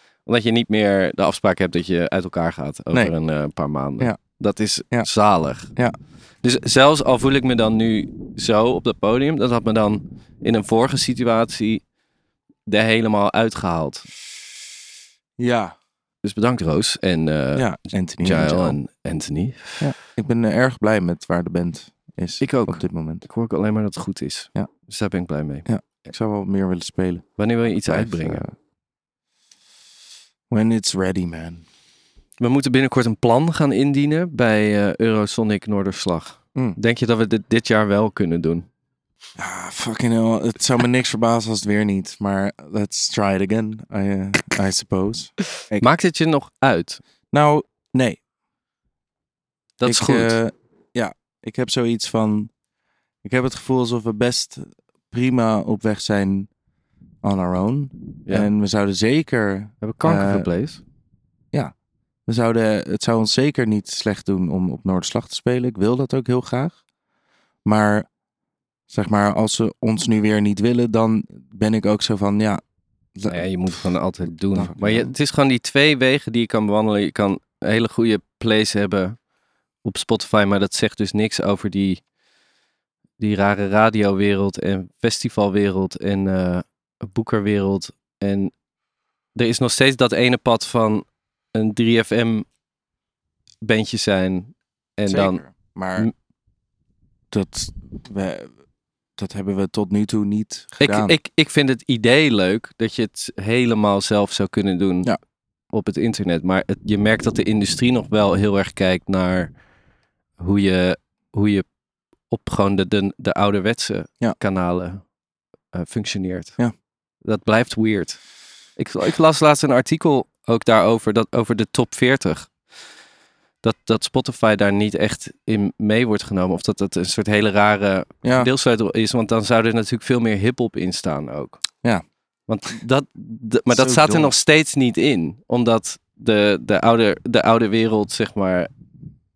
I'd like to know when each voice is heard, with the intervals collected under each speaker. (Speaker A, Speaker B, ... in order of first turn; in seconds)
Speaker A: 0.2-5.7, 6.4-11.8, 12.7-14.1, 16.2-19.9, 22.4-25.7, 27.4-28.4, 32.4-38.7, 45.8-47.0, 49.8-50.4, 59.8-60.8, 73.3-79.2, 79.8-82.0, 83.2-88.5, 89.3-92.5, 93.6-96.1, 100.8-105.1, 105.7-109.5, 110.4-111.7, 112.3-115.1, 115.7-116.6, 117.2-118.2, 118.8-122.5, 123.6-131.6, 132.5-138.7
Speaker B: 15.4-15.8, 17.6-18.8, 19.8-23.3, 25.7-28.5, 30.5-31.6, 39.4-45.9, 47.3-48.2, 49.8-52.5, 53.2-56.5, 57.2-60.5, 62.3-66.8, 67.7-68.1, 68.9-72.6, 73.2-73.9, 74.5-75.1, 95.1-96.1, 97.3-98.5, 99.2-101.2, 128.2-128.5, 133.7-134.3